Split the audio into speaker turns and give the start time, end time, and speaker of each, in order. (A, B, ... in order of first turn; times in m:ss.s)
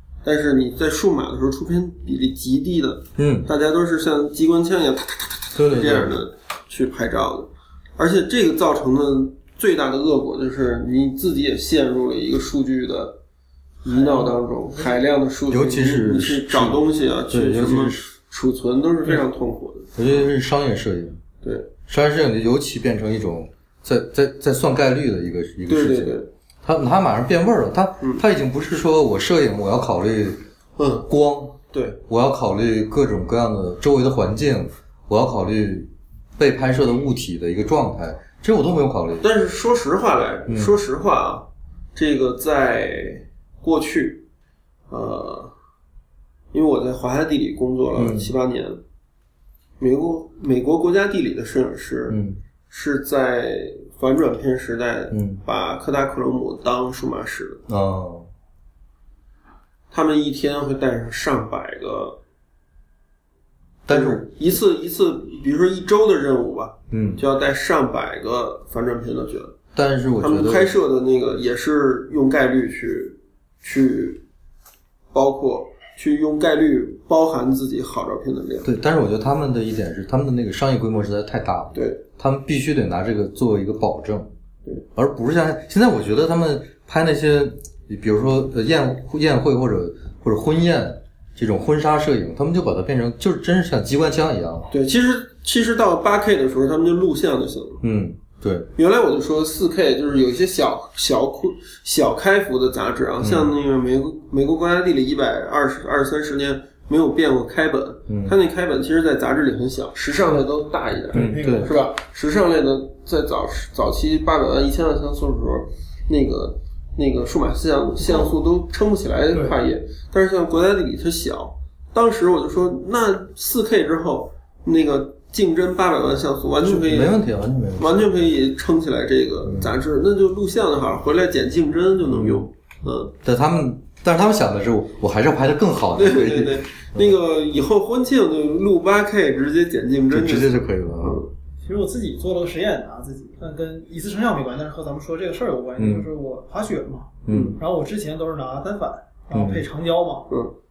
0:00.2-0:13.2 A
0:03.2-0:03.5 B
0:05.6-0:06.2 B
0:13.8-0:20.0 A
0:13.9-0:15.0 C
0:15.5-0:18.1 B
0:20.0-0:21.2 B
0:21.4-0:21.7 A
0:21.9-0:30.4 B
0:25.7-0:26.3 A
0:30.8-0:31.1 A
0:31.1-0:39.3 B
0:31.7-0:32.0 A
0:39.2-0:44.2 A
0:40.5-0:40.8 B
0:44.9-0:45.6 A
0:46.5-0:48.8 A
0:48.0-0:48.3 B
0:49.8-0:57.6 A
0:52.1-0:52.4 B
0:55.1-0:55.4 B
0:57.7-0:58.3 B
0:59.9-1:02.2 A
1:03.9-1:04.3 B
1:03.9-1:09.6 A
1:06.9-1:07.2 B
1:09.7-1:10.7 B
1:10.2-1:14.2 A
1:15.1-1:18.7 A
1:18.6-1:24.3 B
1:21.7-1:22.0 A
1:25.0-1:34.7 B
1:34.7-1:37.8 A
1:37.8-1:38.7 B
1:38.8-2:07.2 A
1:43.2-1:43.5 B
1:48.1-1:48.4 B
1:51.1-1:51.9 C
1:51.1-1:51.7 B
2:06.6-2:08.1 B
2:07.8-2:13.1 A
2:09.4-2:09.7 B
2:12.1-2:12.5 B
2:13.2-2:17.1 B
2:15.9-2:21.3 A
2:20.1-2:21.2 B
2:21.6-2:30.3 C
2:25.8-2:26.1 B
2:27.3-2:27.6 B
2:27.3-2:27.6 A
2:29.3-2:29.6 B